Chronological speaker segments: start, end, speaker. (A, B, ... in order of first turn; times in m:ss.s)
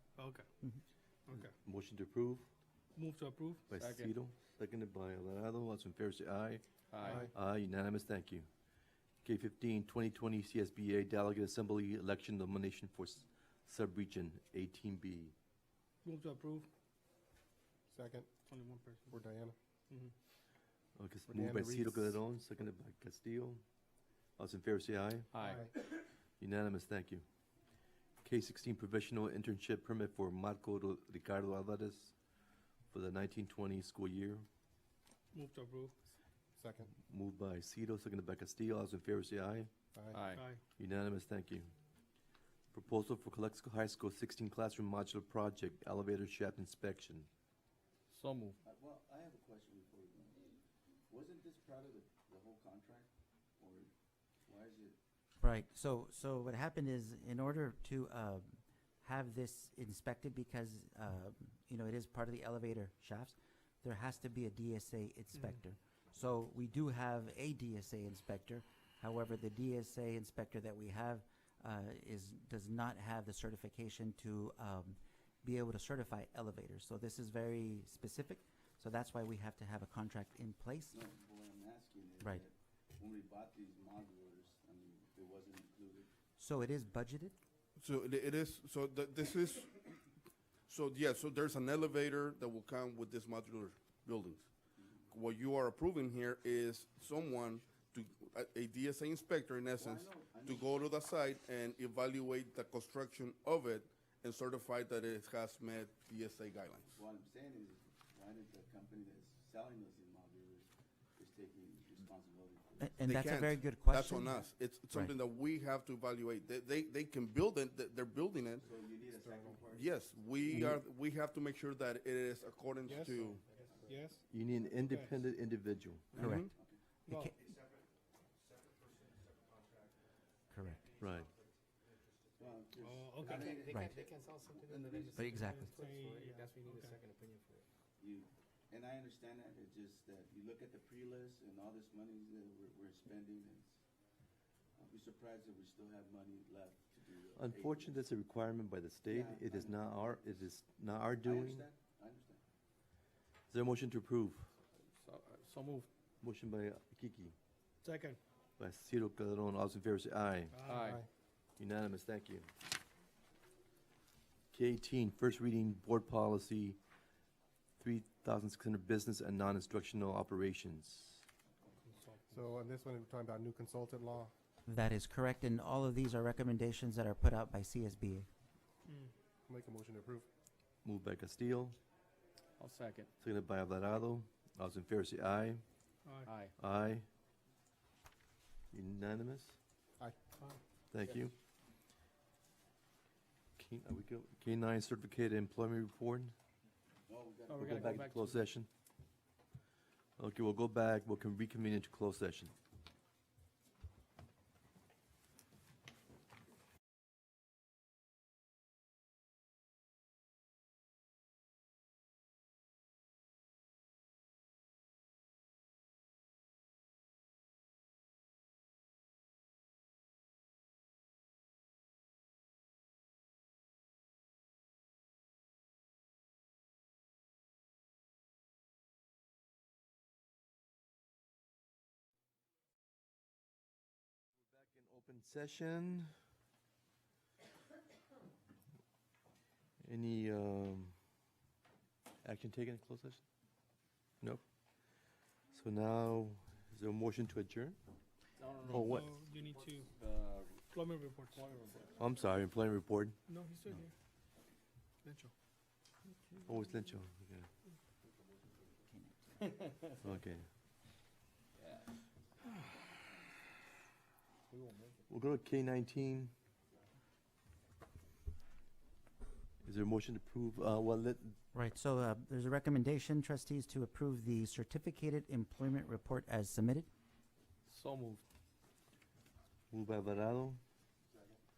0:00.2-0:00.5 A
0:01.4-0:02.5 B
0:02.9-0:03.7 A
0:03.7-0:08.5 B
0:03.7-0:04.1 C
0:06.9-0:07.3 C
0:09.2-0:15.3 B
0:16.0-0:16.7 A
0:17.9-0:18.3 D
0:18.5-0:19.2 A
0:19.1-0:19.5 D
0:21.0-0:23.6 B
0:21.3-0:22.0 D
0:24.4-0:25.3 B
0:25.3-0:25.7 C
0:26.4-0:27.2 B
0:28.2-0:32.1 B
0:32.9-0:34.5 B
0:35.3-0:35.9 A
0:37.0-0:39.7 B
0:39.9-0:40.2 D
0:40.1-0:40.4 C
0:40.3-0:40.6 A
0:40.8-0:41.7 B
0:42.7-0:47.3 B
0:48.1-0:48.6 C
0:48.6-0:50.6 E
0:51.1-0:53.9 E
0:54.4-0:55.0 E
0:55.4-1:21.0 F
1:20.9-1:26.1 E
1:26.4-1:27.4 F
1:27.8-1:29.9 G
1:30.7-1:34.5 G
1:34.8-1:35.1 E
1:35.1-1:47.0 G
1:39.8-1:40.8 E
1:46.9-1:53.1 E
1:52.8-1:55.1 F
1:53.0-1:58.7 G
1:58.6-2:00.8 E
1:59.7-2:03.4 G
2:02.8-2:04.2 A
2:02.9-2:04.1 E
2:04.3-2:06.1 B
2:04.8-2:05.2 A
2:06.1-2:06.4 A
2:06.1-2:06.5 G
2:06.2-2:06.5 F
2:06.4-2:06.8 E
2:07.0-2:07.3 A
2:07.1-2:07.4 F
2:10.5-2:10.9 F
2:11.0-2:11.3 B
2:12.4-2:15.4 E
2:12.8-2:13.5 A
2:13.3-2:17.7 H
2:13.7-2:14.0 F
2:15.1-2:15.7 F
2:15.4-2:17.0 A
2:18.0-2:23.8 E
2:24.8-2:28.0 E
2:27.3-2:31.6 B
2:29.0-2:30.3 E
2:31.2-2:32.4 E
2:33.5-2:34.5 B
2:35.0-2:35.9 C
2:36.2-2:37.3 B
2:37.8-2:38.2 A
2:38.6-2:40.6 B
2:40.5-2:40.9 A
2:40.6-2:41.1 C
2:41.6-2:42.5 B
2:44.5-2:46.8 B
2:47.8-2:51.2 B
2:51.8-2:52.4 A
2:52.3-2:54.3 D
2:54.7-2:58.3 F
2:58.9-2:59.1 A
2:59.5-3:00.3 D
3:00.8-3:01.8 B
3:02.6-3:03.1 C
3:03.2-3:05.6 B
3:06.0-3:06.3 A
3:06.2-3:06.5 C
3:06.6-3:07.0 B
3:08.7-3:09.6 B
3:10.9-3:11.4 B
3:13.6-3:16.3 B
3:17.1-3:18.1 E
3:17.5-3:18.4 C
3:17.6-3:18.7 B
3:20.2-3:22.5 B
3:54.5-3:56.1 B
3:59.8-4:01.0 B
4:02.2-4:03.2 B
4:05.5-4:07.8 B
4:08.4-4:10.6 C
4:08.7-4:09.1 B
4:08.7-4:09.9 A
4:10.7-4:11.6 A
4:11.3-4:12.0 C
4:12.0-4:13.2 B
4:13.3-4:13.9 A
4:15.0-4:15.3 A
4:16.4-4:17.5 B
4:20.0-4:20.5 B
4:25.1-4:26.3 B
4:29.6-4:31.4 B
4:31.5-4:36.9 F
4:37.6-4:38.2 C
4:39.7-4:40.6 B